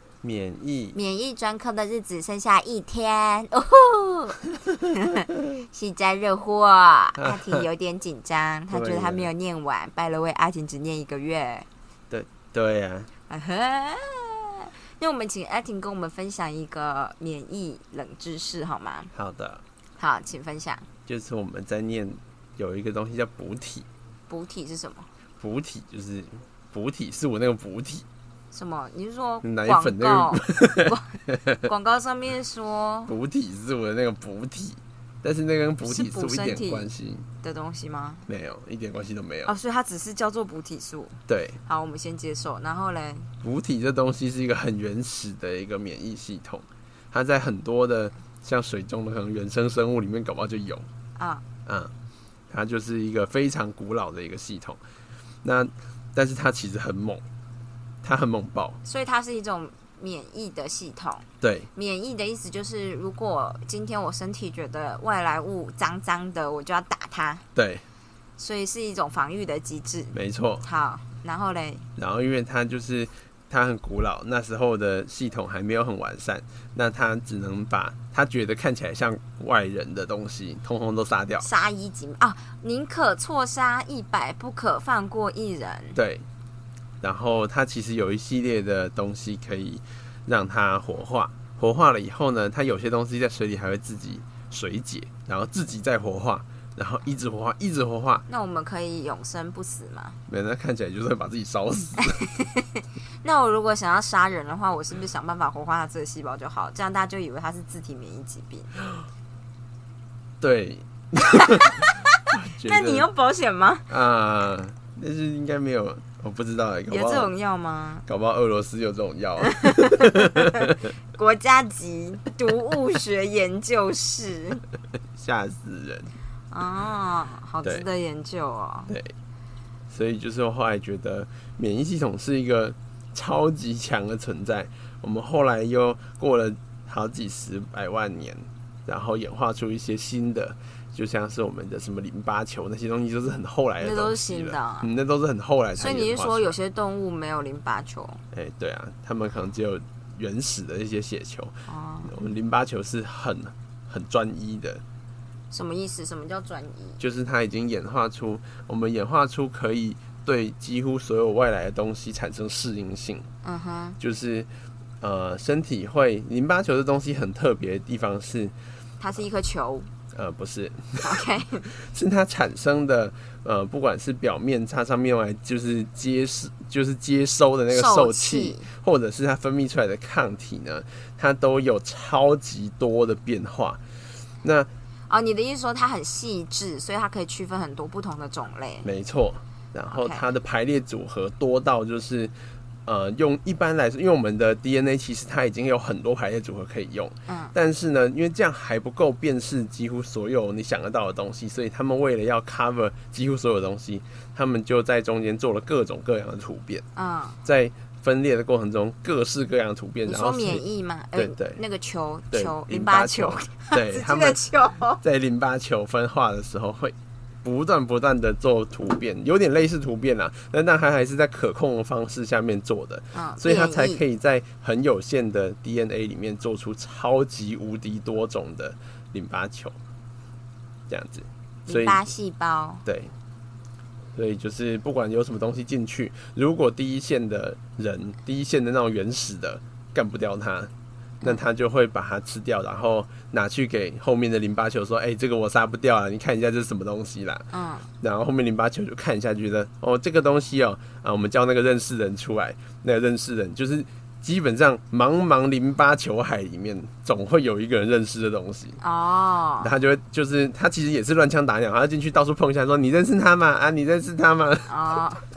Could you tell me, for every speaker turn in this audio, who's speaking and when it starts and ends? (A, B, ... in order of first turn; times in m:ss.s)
0:00.2-0:01.0 A
0:00.9-0:11.7 B
0:07.2-0:07.6 A
0:08.7-0:09.3 A
0:12.1-0:13.1 A
0:13.3-0:19.1 B
0:19.1-0:19.6 A
0:20.0-0:20.9 B
0:21.1-0:23.9 A
0:24.3-0:25.1 B
0:25.4-0:28.1 A
0:28.5-0:33.1 B
0:29.4-0:31.6 A
0:33.1-0:37.3 A
0:35.8-0:36.9 B
0:37.4-0:38.2 B
0:38.3-0:39.5 A
0:39.5-0:43.3 B
0:41.3-0:41.6 A
0:43.4-0:50.9 A
0:51.2-0:51.4 B
0:51.7-0:51.9 A
0:52.5-0:54.8 A
0:55.4-0:57.2 A
0:58.0-0:58.8 A
0:58.8-1:07.4 B
1:01.4-1:01.7 A
1:07.6-1:07.8 A
1:08.4-1:11.9 B
1:10.1-1:10.6 A
1:12.0-1:21.5 A
1:21.4-1:26.0 B
1:26.0-1:26.2 A
1:27.0-1:38.2 A
1:38.3-1:40.2 B
1:40.3-1:42.2 A
1:42.0-1:48.8 B
1:50.4-1:53.1 A
1:51.3-1:52.1 B
1:52.6-1:53.9 B
1:53.9-1:57.3 A
1:56.9-1:58.0 B
1:58.1-2:00.8 A
1:59.4-2:04.6 B
2:05.2-2:06.1 A
2:06.5-2:09.0 B
2:09.9-2:26.6 A
2:23.8-2:24.9 B
2:25.8-2:28.2 B
2:28.3-2:34.8 A
2:31.7-2:32.1 B
2:35.5-2:37.0 B
2:37.0-2:43.3 A
2:43.4-2:44.0 B
2:44.0-2:44.5 A
2:45.0-2:48.5 A
2:49.0-2:49.9 B
2:50.1-3:03.8 A
2:51.0-2:51.7 B
2:57.7-2:58.7 B
3:04.4-3:04.7 A
3:05.1-3:08.9 B
3:08.8-3:12.3 A
3:09.9-3:10.3 B
3:12.9-3:26.9 A
3:17.3-3:17.6 B
3:27.0-3:27.4 B
3:27.4-3:30.6 A
3:30.1-3:35.0 B
3:31.2-3:31.6 A
3:32.3-3:34.4 A
3:35.0-3:49.8 A
3:43.1-3:44.0 B
3:50.9-3:52.0 A
3:51.7-3:52.8 B
3:52.9-3:53.1 A
3:54.2-4:00.7 A
4:01.2-4:07.5 A
4:07.5-4:07.9 B
4:08.0-4:18.8 A
4:18.8-4:19.8 B
4:19.6-4:24.7 A
4:24.7-4:25.2 B